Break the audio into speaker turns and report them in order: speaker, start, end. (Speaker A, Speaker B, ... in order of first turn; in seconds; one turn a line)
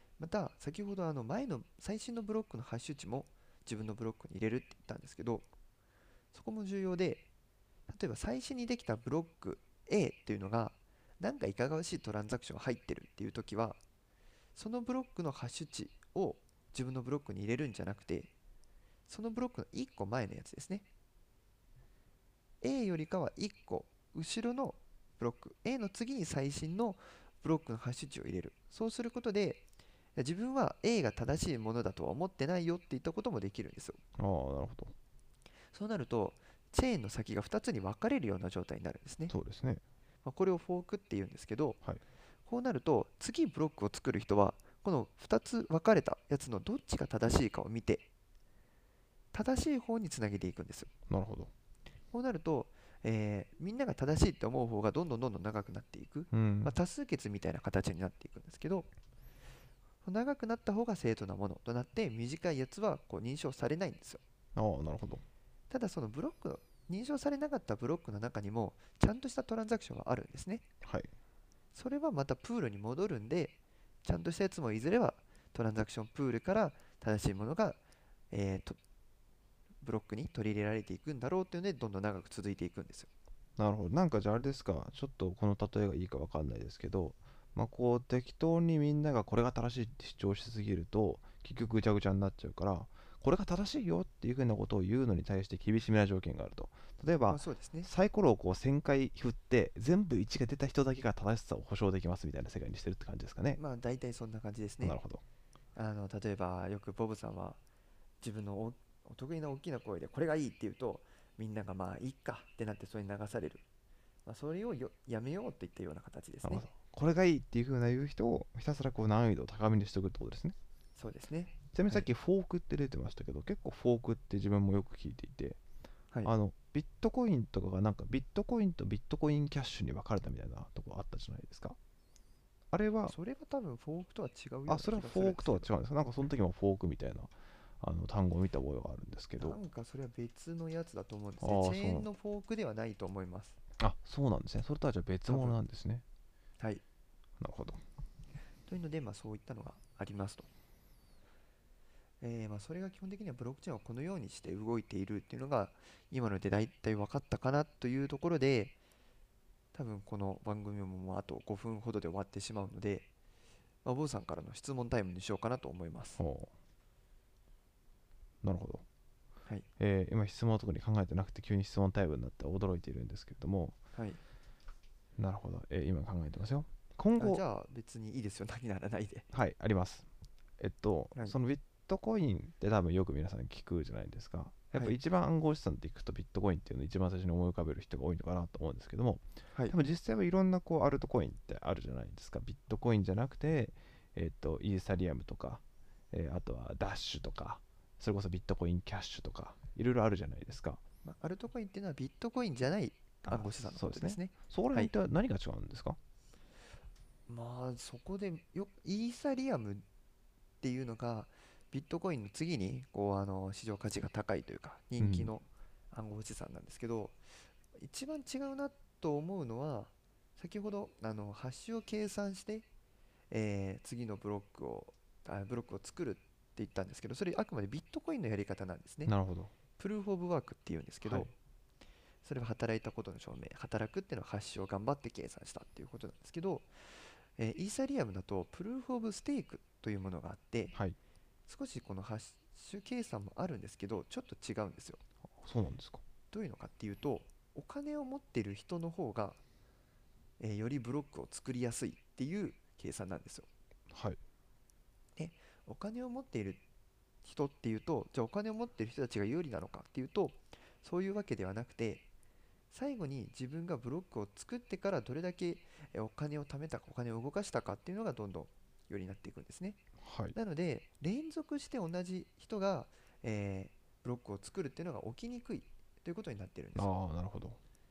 Speaker A: 0.2-5.5
Speaker A: 6.3-7.3
Speaker A: 7.9-13.8
Speaker A: 14.5-18.3
Speaker A: 19.1-20.9
Speaker A: 22.6-29.6
Speaker A: 30.1-34.0
Speaker B: 34.2-34.9
Speaker A: 35.7-39.3
Speaker B: 39.3-39.8
Speaker A: 40.2-41.8
Speaker A: 42.5-48.1
Speaker A: 49.3-50.9
Speaker B: 51.1-51.5
Speaker A: 52.1-58.9
Speaker B: 56.3-56.7
Speaker A: 60.0-64.2
Speaker B: 64.5-65.2
Speaker A: 65.7-70.6
Speaker B: 70.8-71.1
Speaker A: 71.7-77.8
Speaker A: 78.3-78.8
Speaker A: 79.8-83.1
Speaker B: 83.6-103.6
Speaker A: 97.3-97.9
Speaker A: 103.5-105.0
Speaker B: 104.8-105.2
Speaker A: 105.7-107.6
Speaker A: 108.2-113.6
Speaker A: 114.2-116.6
Speaker B: 116.4-120.5
Speaker A: 121.0-122.1
Speaker B: 121.7-125.6
Speaker B: 126.2-131.8
Speaker B: 132.7-133.2
Speaker A: 133.1-135.7
Speaker B: 134.7-139.6
Speaker A: 139.4-143.6
Speaker B: 141.4-142.1
Speaker B: 143.8-146.0
Speaker A: 145.3-145.6
Speaker B: 147.4-147.8
Speaker A: 148.7-150.5
Speaker A: 152.2-158.8
Speaker A: 159.7-163.1
Speaker A: 163.8-166.2
Speaker B: 166.2-166.5
Speaker B: 168.4-168.8
Speaker B: 169.8-173.8
Speaker A: 173.9-174.2
Speaker B: 175.2-177.4
Speaker A: 177.2-179.3
Speaker B: 179.3-180.1
Speaker B: 180.6-200.8
Speaker A: 201.0-204.9
Speaker B: 203.3-206.0
Speaker A: 207.3-209.8
Speaker A: 210.6-222.7
Speaker B: 215.0-215.3
Speaker A: 223.3-229.1
Speaker B: 229.1-229.5
Speaker A: 229.8-231.3
Speaker B: 231.0-231.3
Speaker A: 232.2-240.7
Speaker A: 241.5-245.0
Speaker B: 245.4-246.0
Speaker A: 246.3-249.4
Speaker A: 250.4-253.5
Speaker B: 253.9-254.2
Speaker A: 255.2-256.6
Speaker A: 257.2-262.1
Speaker A: 262.7-269.8
Speaker B: 270.0-270.4
Speaker A: 270.3-276.9
Speaker B: 276.7-277.6